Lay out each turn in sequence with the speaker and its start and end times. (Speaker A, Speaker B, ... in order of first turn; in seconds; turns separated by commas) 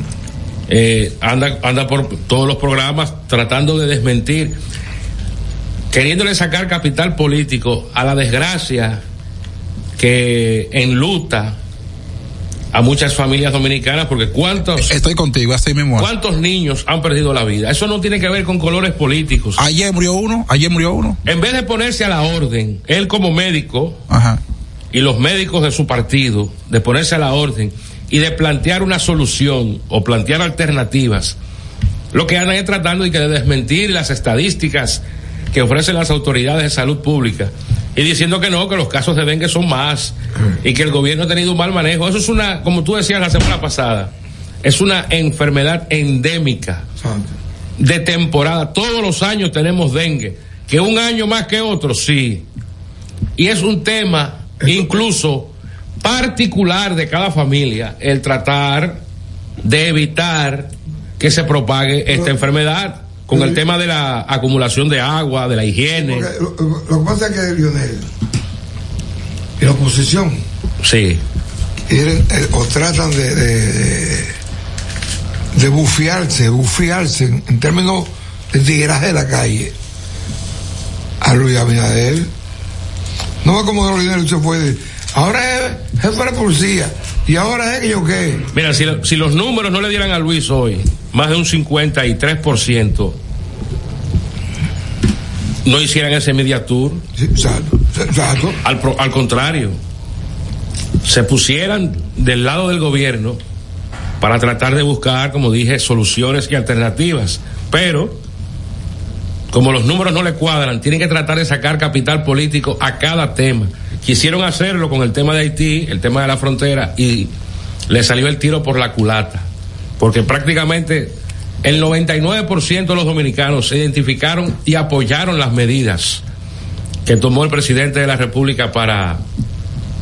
Speaker A: 0.7-4.6, Speaker A: 5.9-9.0, Speaker A: 10.0-11.6, Speaker A: 12.7-14.9, Speaker B: 14.8-16.1, Speaker A: 16.0-19.6, Speaker B: 19.6-21.2, Speaker A: 21.2-24.0, Speaker B: 24.1-24.4, Speaker A: 24.9-31.4, Speaker A: 32.1-44.1, Speaker A: 44.6-46.8, Speaker C: 47.0-47.3, Speaker A: 47.8-52.4, Speaker A: 53.4-59.0, Speaker C: 54.6-55.0, Speaker A: 59.6-66.3, Speaker C: 63.3-63.6, Speaker C: 65.9-68.1, Speaker C: 69.6-70.4, Speaker A: 70.8-71.2, Speaker C: 71.9-74.3, Speaker C: 75.5-79.7, Speaker C: 81.2-82.3, Speaker C: 83.4-88.5, Speaker A: 88.5-93.2, Speaker A: 95.6-97.0, Speaker C: 97.2-98.6, Speaker A: 98.6-99.8, Speaker A: 101.0-103.4, Speaker A: 104.2-108.2, Speaker A: 109.5-117.3, Speaker A: 117.9-119.5, Speaker A: 120.0-126.2, Speaker A: 127.0-129.2